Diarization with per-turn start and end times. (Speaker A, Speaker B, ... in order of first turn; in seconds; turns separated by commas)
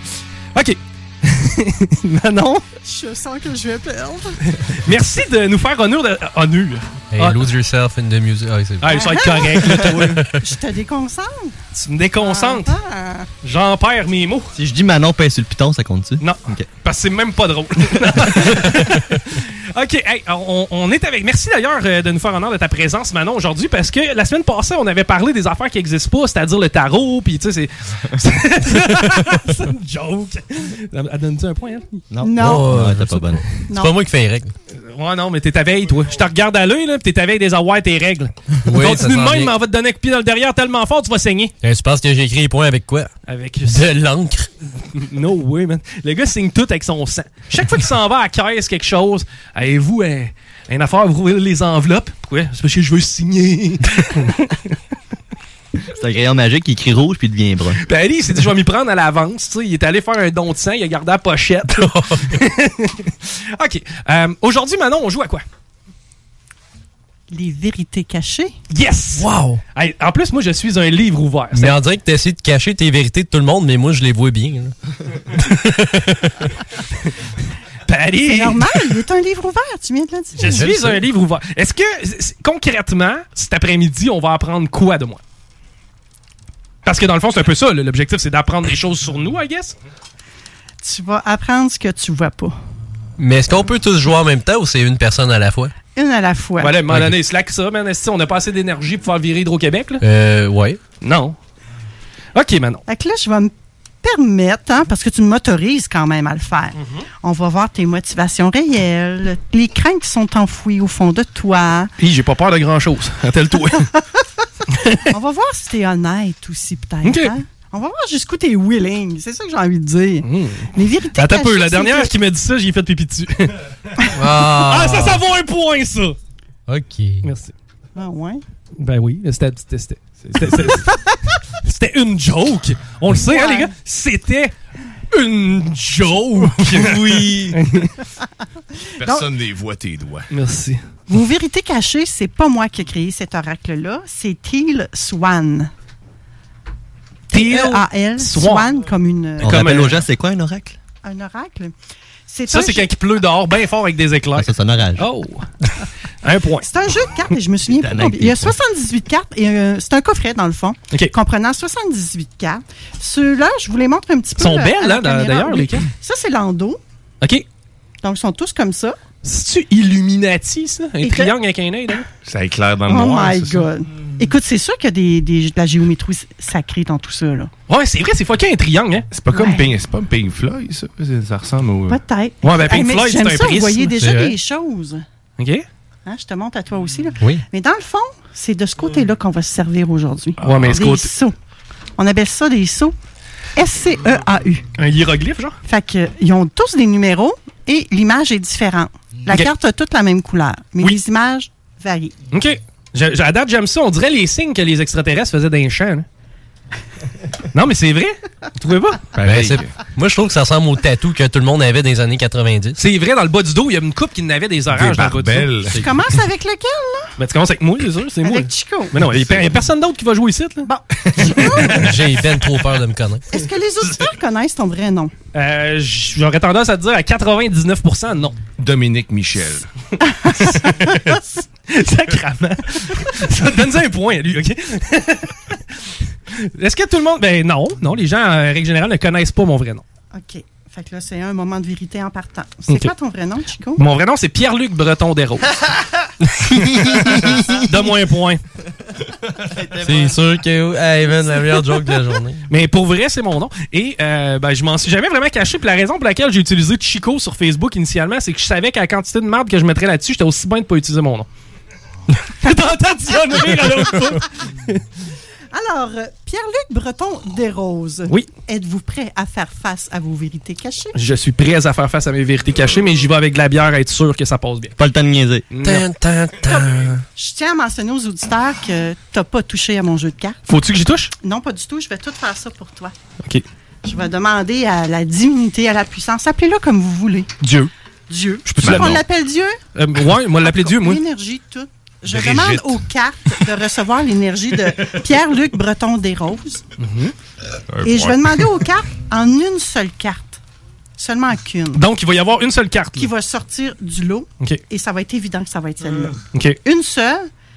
Speaker A: 0.5-2.6, Speaker B: 2.8-4.4, Speaker A: 4.6-7.4, Speaker C: 7.1-10.3, Speaker A: 8.8-10.2, Speaker B: 8.9-11.6, Speaker A: 11.7-12.7, Speaker B: 12.2-13.3, Speaker A: 13.4-14.5, Speaker D: 14.5-16.7, Speaker A: 16.2-31.8, Speaker D: 32.1-33.4, Speaker B: 32.2-32.7, Speaker C: 32.4-34.5, Speaker B: 33.7-33.9, Speaker A: 34.7-41.5, Speaker C: 38.6-39.5, Speaker C: 41.6-43.1, Speaker A: 43.3-43.9, Speaker C: 43.6-44.5, Speaker A: 44.9-54.5, Speaker D: 55.9-57.8, Speaker A: 57.9-65.4, Speaker C: 61.8-62.4, Speaker B: 67.3-68.5, Speaker A: 68.7-71.7, Speaker C: 71.5-74.7, Speaker C: 75.4-76.5, Speaker A: 77.9-78.6, Speaker B: 78.2-80.7, Speaker A: 80.4-85.2, Speaker C: 80.4-81.0, Speaker A: 86.8-89.8, Speaker B: 90.8-92.5, Speaker C: 93.2-95.7, Speaker B: 95.9-96.8, Speaker A: 96.6-100.0, Speaker C: 100.0-100.8, Speaker A: 101.0-101.4, Speaker A: 102.3-102.8, Speaker B: 102.9-103.5, Speaker B: 104.0-111.9, Speaker A: 106.8-107.0, Speaker A: 112.0-113.9, Speaker A: 114.7-115.1, Speaker B: 115.1-122.1, Speaker A: 117.0-117.3, Speaker A: 120.2-123.5, Speaker C: 124.1-125.2, Speaker A: 124.6-126.2, Speaker C: 126.7-127.2, Speaker A: 127.2-127.5, Speaker B: 128.0-128.4, Speaker A: 128.8-130.9, Speaker E: 130.2-130.6, Speaker A: 131.6-134.5, Speaker B: 133.1-133.7, Speaker A: 135.1-137.9, Speaker E: 136.7-137.3, Speaker E: 139.0-140.3, Speaker B: 139.0-139.3, Speaker A: 140.3-140.8, Speaker B: 141.1-145.7, Speaker B: 147.3-149.7, Speaker A: 147.3-148.7, Speaker D: 149.4-150.8, Speaker A: 149.4-150.0, Speaker B: 151.0-151.7, Speaker B: 152.3-152.9, Speaker A: 152.5-155.5, Speaker D: 154.3-155.1, Speaker A: 156.2-156.7, Speaker B: 156.6-166.8, Speaker D: 157.7-158.6, Speaker A: 164.4-165.8, Speaker B: 168.0-169.0, Speaker A: 169.2-172.1, Speaker B: 171.0-171.3, Speaker E: 172.2-173.7, Speaker B: 172.8-177.5, Speaker A: 177.7-179.1, Speaker E: 179.1-182.0, Speaker B: 179.3-179.7, Speaker B: 181.9-185.0, Speaker A: 182.4-183.9, Speaker C: 184.0-184.3, Speaker A: 185.4-185.7, Speaker B: 186.1-191.3, Speaker A: 190.4-191.1, Speaker B: 192.0-192.9, Speaker B: 193.6-194.6, Speaker A: 194.8-195.6, Speaker B: 195.6-202.1, Speaker A: 202.3-206.1, Speaker A: 207.5-209.1, Speaker E: 209.2-209.7, Speaker C: 209.2-212.8, Speaker A: 212.8-215.5, Speaker E: 214.7-215.8, Speaker B: 215.7-217.1, Speaker A: 217.2-220.7, Speaker B: 218.2-219.0, Speaker E: 219.0-219.6, Speaker B: 220.6-221.9, Speaker C: 221.7-223.3, Speaker B: 223.3-225.1, Speaker A: 225.3-228.4, Speaker E: 228.6-229.7, Speaker B: 230.1-231.2, Speaker A: 231.7-235.6, Speaker A: 236.3-239.8, Speaker B: 240.1-243.8, Speaker A: 243.8-245.4, Speaker C: 246.8-247.1, Speaker A: 247.1-248.4, Speaker D: 249.5-250.2, Speaker C: 249.8-252.4, Speaker A: 252.5-261.3, Speaker A: 262.3-264.8, Speaker B: 263.1-263.9, Speaker B: 265.5-270.9, Speaker A: 270.9-274.8, Speaker D: 274.8-275.4, Speaker A: 275.5-275.9, Speaker C: 275.6-277.0, Speaker B: 276.5-280.4, Speaker A: 280.5-281.1, Speaker B: 281.2-282.9, Speaker B: 283.8-287.3, Speaker A: 287.4-287.7, Speaker B: 288.1-289.6, Speaker A: 288.5-288.9, Speaker E: 288.6-289.0, Speaker A: 289.7-291.0, Speaker B: 290.4-296.6, Speaker E: 292.1-292.8, Speaker A: 296.8-297.1, Speaker E: 297.7-298.4, Speaker B: 297.8-300.4, Speaker B: 301.0-301.8, Speaker A: 301.7-303.1, Speaker B: 303.0-307.3, Speaker A: 306.3-306.6